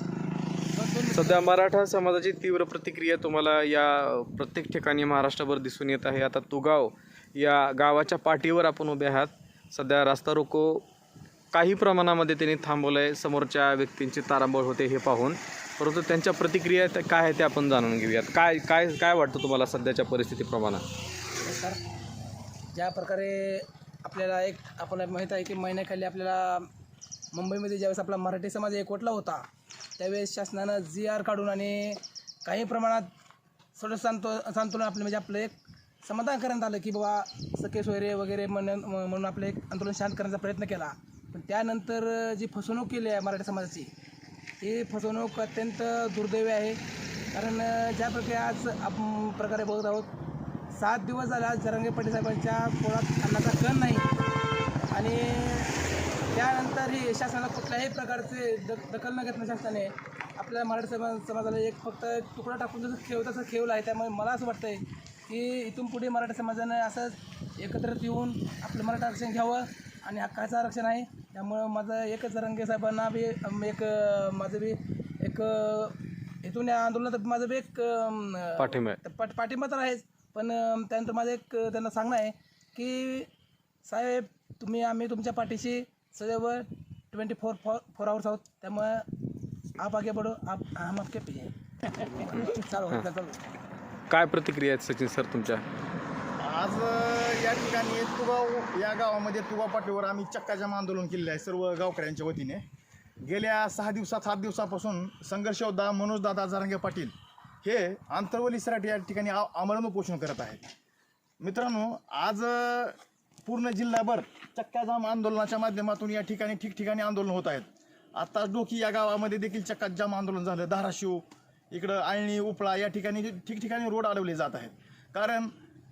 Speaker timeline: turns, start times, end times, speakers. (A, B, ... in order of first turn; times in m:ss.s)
0:00.7-0:01.5 A
0:01.1-0:10.8 B
0:11.5-0:20.8 B
0:21.4-0:21.8 A
0:22.7-0:26.7 A
0:27.3-0:29.4 A
0:30.0-0:33.1 A
0:33.8-0:43.9 A
0:44.6-0:46.8 A
0:47.3-0:50.1 A
0:50.7-0:54.1 A
0:54.9-0:55.7 A
0:56.3-1:23.3 A
1:18.6-1:19.0 B
1:23.8-1:33.4 A
1:34.1-1:35.6 B
1:36.4-1:42.6 C
1:43.2-1:47.1 C
1:47.6-1:50.6 C
1:51.4-2:05.5 C